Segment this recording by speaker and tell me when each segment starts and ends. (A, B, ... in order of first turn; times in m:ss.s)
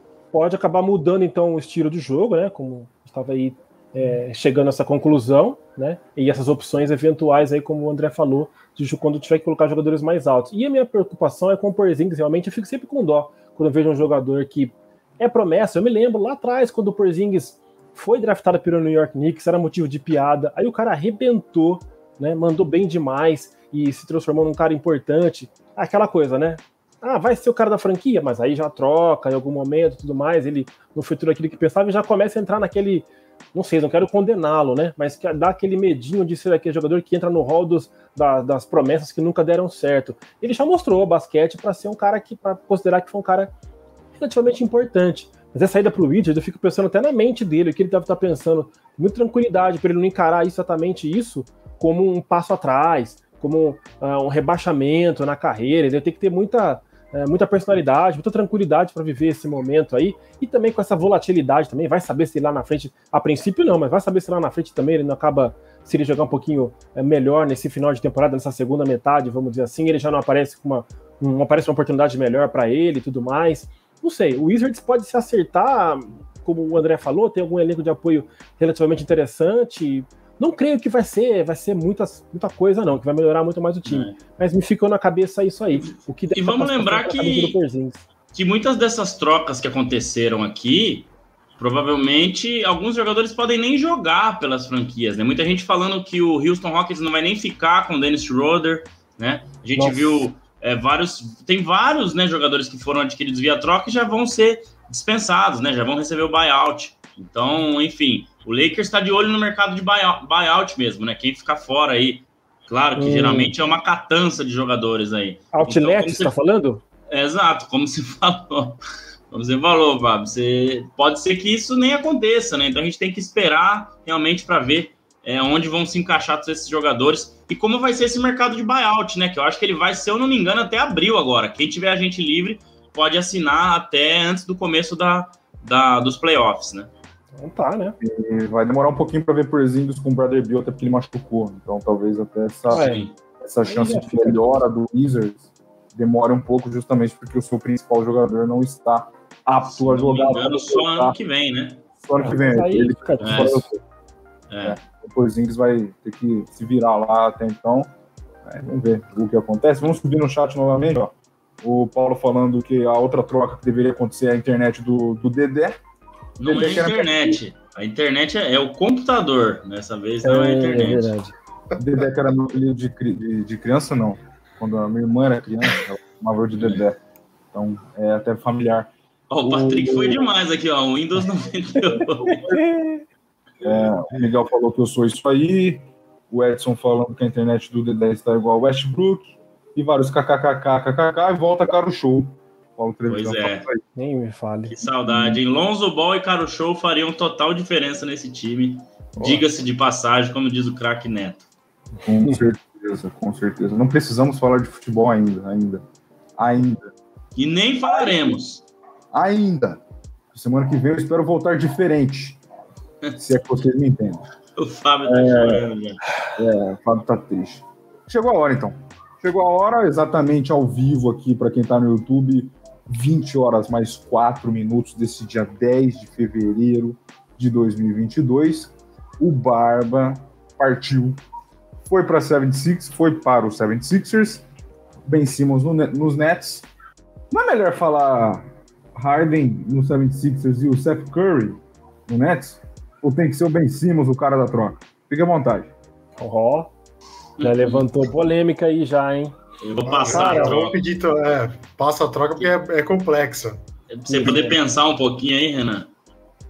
0:00.3-0:43.5 A
0:44.2-1:28.0 A
1:23.8-1:24.2 B
1:25.7-1:27.6 B
1:28.3-1:56.3 B
1:39.8-1:40.3 A
1:53.0-1:53.5 A
1:55.5-1:56.8 A
1:57.1-2:16.9 B
2:17.4-2:18.0 A
2:18.0-2:31.2 C
2:22.7-2:23.1 B
2:22.7-2:23.1 A
2:23.6-2:24.6 A
2:29.7-2:31.8 B
2:32.0-2:33.8 C
2:32.2-2:33.6 A
2:33.2-2:33.6 B
2:34.5-2:34.8 B
2:34.6-2:37.9 C
2:38.4-2:45.8 C
2:46.4-2:51.1 B
2:46.4-2:47.4 C
2:50.2-2:51.3 A
2:51.8-2:57.0 C
2:56.6-2:56.8 B
2:57.5-2:58.9 C
2:59.3-3:02.5 B
2:59.5-3:00.1 A
2:59.6-3:00.1 C
3:02.2-3:02.7 C
3:02.6-3:03.0 A
3:03.6-3:13.8 C
3:13.1-3:13.6 B
3:14.0-3:14.8 A
3:14.7-3:21.5 B
3:15.1-3:15.4 C
3:19.2-3:19.4 C
3:22.0-3:25.8 C
3:26.4-3:26.9 C
3:27.4-3:28.6 B
3:29.1-3:29.8 C
3:30.3-3:32.4 C
3:33.2-3:34.3 C
3:34.6-3:36.1 B
3:35.0-3:35.6 C
3:36.4-3:51.2 C
3:51.9-3:54.5 C
3:55.0-3:56.7 C
3:57.3-4:05.7 C
4:06.2-4:06.7 A
4:07.4-4:07.8 B
4:07.4-4:09.4 A
4:09.6-4:10.8 B
4:09.8-4:13.6 D
4:10.0-4:10.6 A
4:13.9-4:15.9 B
4:14.1-4:14.6 A